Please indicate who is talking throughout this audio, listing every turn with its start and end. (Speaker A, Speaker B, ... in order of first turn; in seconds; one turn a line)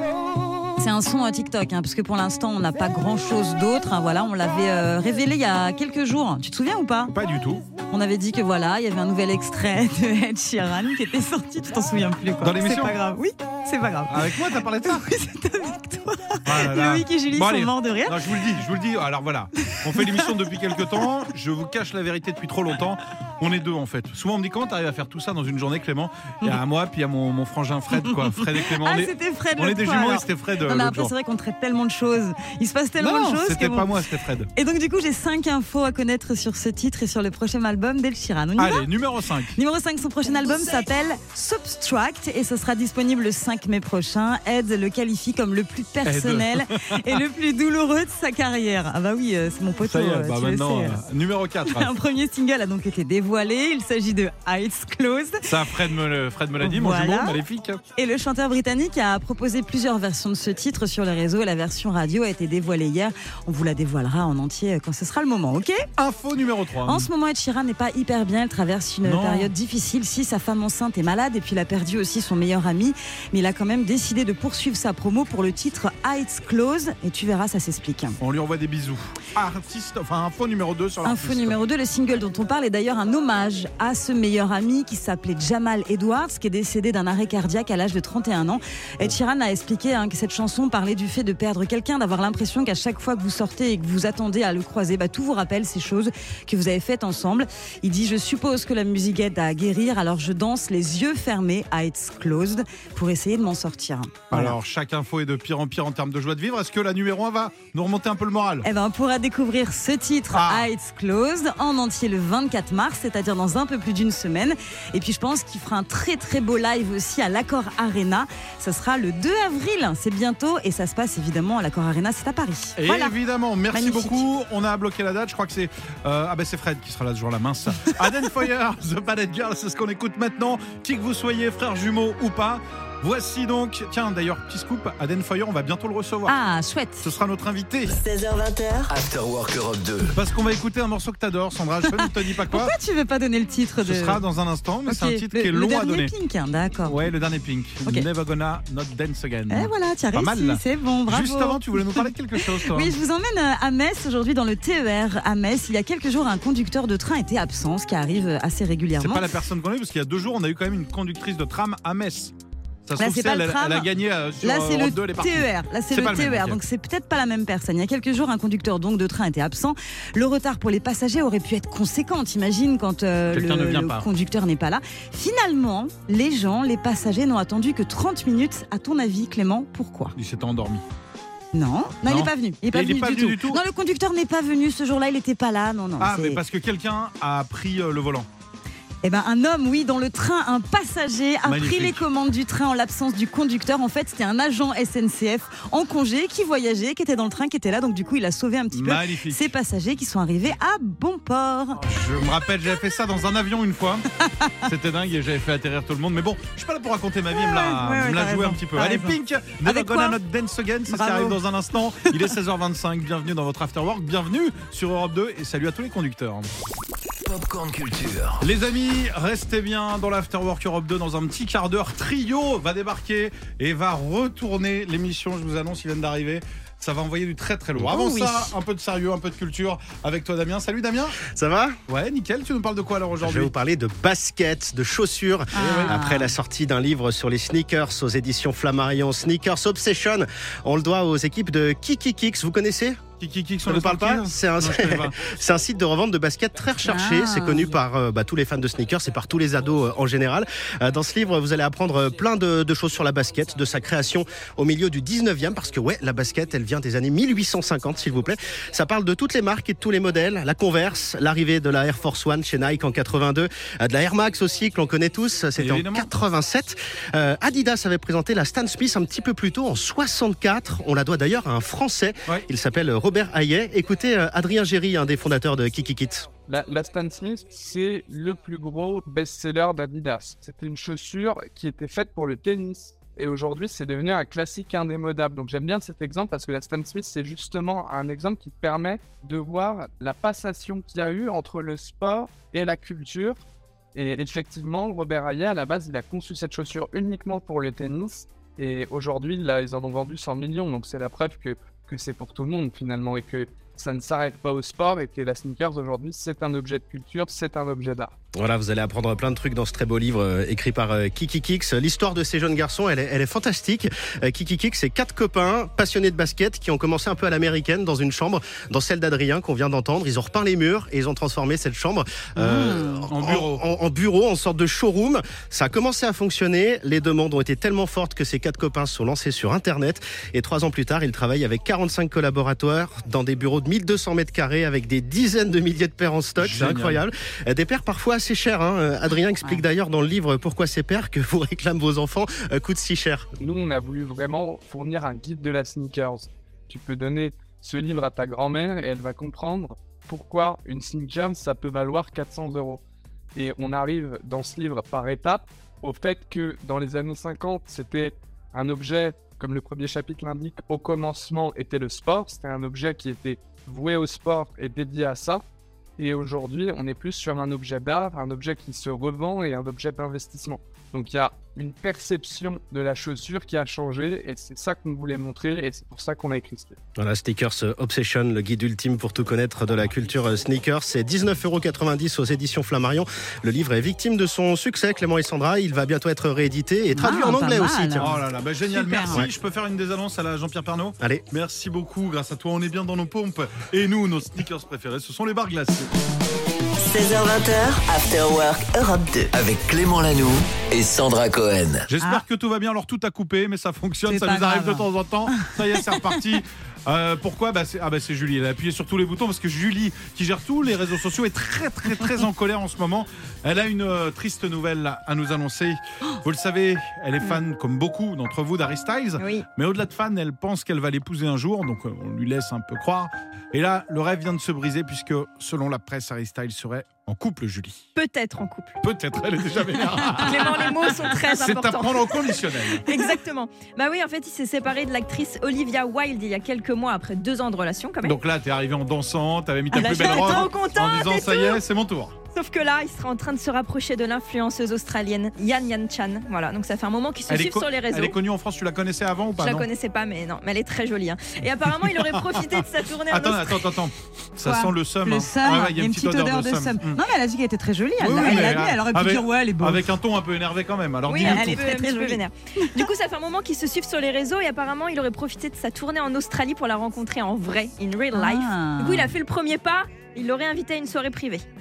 Speaker A: 0.8-7.1
Speaker B: 7.1-7.6
Speaker A: 7.9-18.2
Speaker B: 12.4-12.9
Speaker B: 14.1-15.1
Speaker B: 16.4-31.1
Speaker A: 19.6-20.3
Speaker A: 28.2-33.9
Speaker B: 33.0-34.5
Speaker A: 34.5-38.9
Speaker B: 38.6-39.6
Speaker A: 39.5-51.0
Speaker B: 46.1-47.1
Speaker B: 49.8-51.9
Speaker A: 51.6-55.4
Speaker B: 55.4-57.8
Speaker A: 56.6-57.4
Speaker A: 57.9-65.8
Speaker B: 66.0-67.1
Speaker A: 66.8-78.2
Speaker B: 69.0-69.5
Speaker B: 78.2-81.6
Speaker A: 81.0-104.5
Speaker B: 104.3-108.7
Speaker A: 108.6-123.2
Speaker B: 110.3-110.7
Speaker B: 122.8-136.3
Speaker A: 123.7-124.2
Speaker A: 136.3-137.1
Speaker B: 137.0-137.9
Speaker C: 137.9-138.9
Speaker D: 138.9-140.2
Speaker B: 140.1-142.8
Speaker A: 141.9-144.2
Speaker B: 143.8-146.1
Speaker A: 144.9-147.0
Speaker B: 146.8-152.9
Speaker A: 149.5-159.3
Speaker B: 159.0-162.3
Speaker B: 162.9-166.6
Speaker A: 163.0-163.9
Speaker A: 164.4-180.1
Speaker B: 173.3-174.1
Speaker B: 180.2-180.8
Speaker A: 181.5-186.4
Speaker B: 182.0-183.6
Speaker B: 186.0-188.3
Speaker A: 189.0-201.8
Speaker B: 191.4-192.1
Speaker B: 198.7-199.5
Speaker B: 201.8-204.1
Speaker B: 204.6-216.5
Speaker A: 207.3-210.2
Speaker A: 210.9-211.4
Speaker D: 217.2-218.4
Speaker B: 218.4-231.2
Speaker A: 228.1-228.3
Speaker E: 231.2-231.8
Speaker B: 231.9-233.5
Speaker E: 233.2-243.0
Speaker A: 235.6-236.3
Speaker B: 235.6-236.0
Speaker B: 243.2-245.3
Speaker E: 243.7-276.3
Speaker A: 246.8-247.7
Speaker B: 265.6-266.1
Speaker F: 276.5-293.4
Speaker F: 293.9-308.1
Speaker E: 308.4-343.2
Speaker A: 322.4-323.0
Speaker B: 323.1-323.6
Speaker B: 336.4-337.0
Speaker F: 343.4-352.8
Speaker F: 353.3-365.4
Speaker F: 366.0-376.8
Speaker E: 377.0-388.2
Speaker A: 386.9-388.1
Speaker B: 388.0-395.9
Speaker A: 388.7-389.2
Speaker C: 396.8-399.3
Speaker D: 399.3-401.9
Speaker B: 401.9-427.9
Speaker A: 404.1-406.0
Speaker G: 419.2-419.4
Speaker G: 427.9-428.8
Speaker B: 428.8-432.9
Speaker G: 430.2-438.2
Speaker B: 438.0-442.2
Speaker G: 439.7-441.6
Speaker A: 439.9-440.4
Speaker G: 442.3-448.2
Speaker B: 447.3-449.7
Speaker G: 449.4-453.6
Speaker B: 451.8-452.5
Speaker B: 453.1-457.0
Speaker A: 454.4-459.8
Speaker B: 458.0-461.6
Speaker G: 461.1-471.4
Speaker A: 461.2-462.8
Speaker A: 468.1-469.1